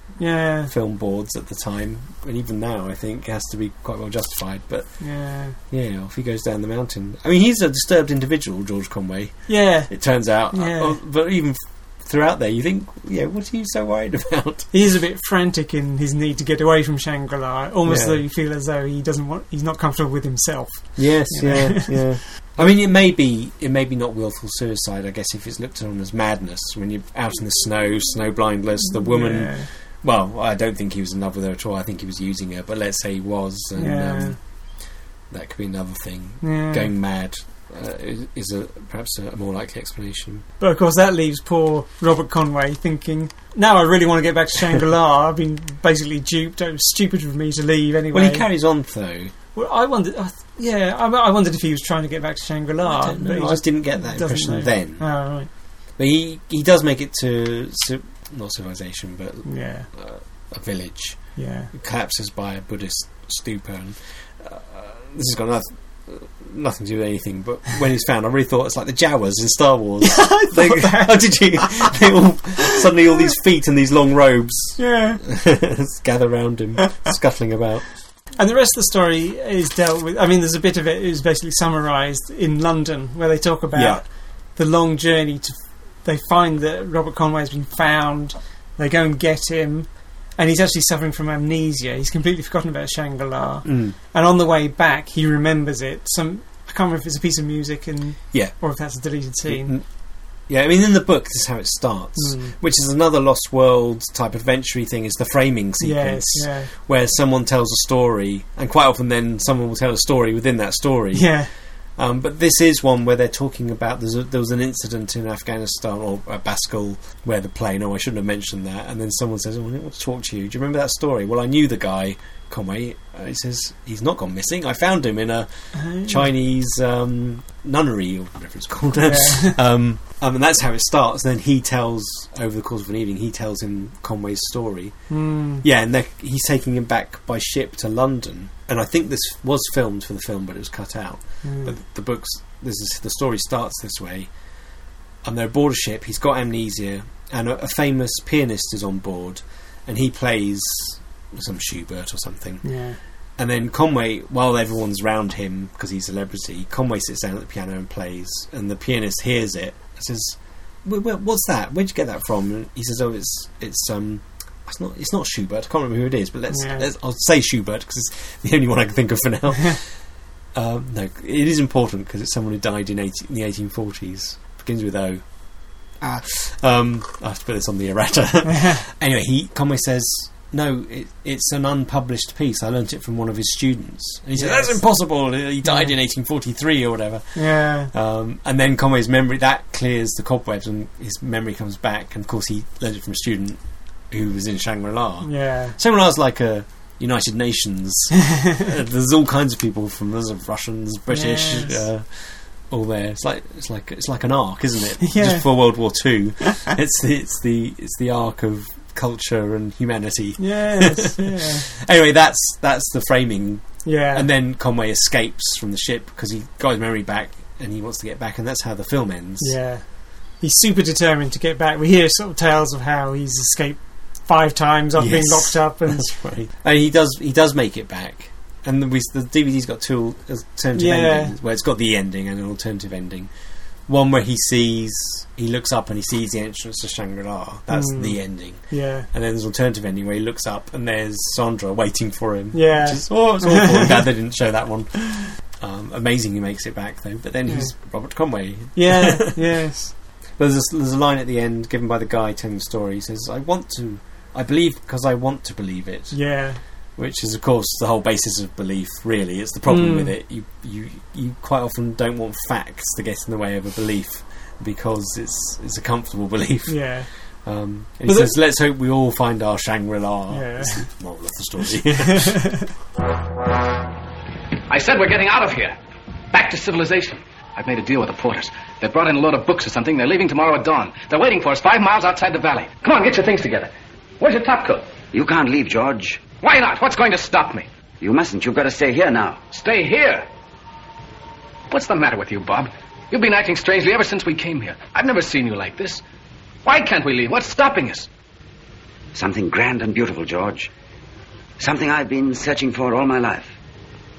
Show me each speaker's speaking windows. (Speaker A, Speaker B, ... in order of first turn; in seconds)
Speaker A: 0.2-0.7, 5.0-5.6, 9.5-9.9, 10.5-11.0, 14.7-22.7, 29.0-29.7, 33.8-34.4, 36.4-36.9, 40.6-48.5, 49.5-55.5, 59.4-59.9, 61.4-61.7, 70.0-71.9, 74.8-75.2, 78.3-99.7, 102.2-102.5, 105.8-106.7, 111.1-111.5, 125.7-126.3, 128.9-129.6, 135.1-135.6, 141.4-141.7, 152.6-153.0, 166.5-166.9, 178.4-178.8, 184.3-184.8, 185.6-185.9, 187.3-187.9, 195.2-195.8, 201.1-201.8, 205.0-205.5, 210.4-211.6, 213.8-214.3, 219.4-226.1, 230.7-231.3, 237.7-239.1, 242.5-244.1, 247.5-247.7, 248.7-249.9, 256.1-256.6, 259.7-260.1, 266.7-267.1, 268.1-268.3, 270.3-270.9, 272.1-272.7
Speaker B: 0.7-4.9, 5.7-14.7, 17.9-18.2, 20.9-34.4, 35.3-40.4, 48.1-49.3, 52.8-55.1, 56.0-77.8, 83.7-84.0, 93.6-93.9, 99.5-99.8, 100.5-111.3, 112.0-134.9, 135.6-144.3, 145.2-152.7, 153.4-170.0, 170.5-175.2, 176.0-219.6, 224.9-233.3, 233.9-249.4, 250.3-256.2, 257.0-266.8, 267.4-272.5
Speaker C: 274.7-275.8, 276.3-284.9, 286.3-287.7, 289.5-290.2, 291.7-296.0, 296.6-298.1
Speaker D: 285.1-286.3, 288.0-289.4, 299.1-300.7, 301.6-303.5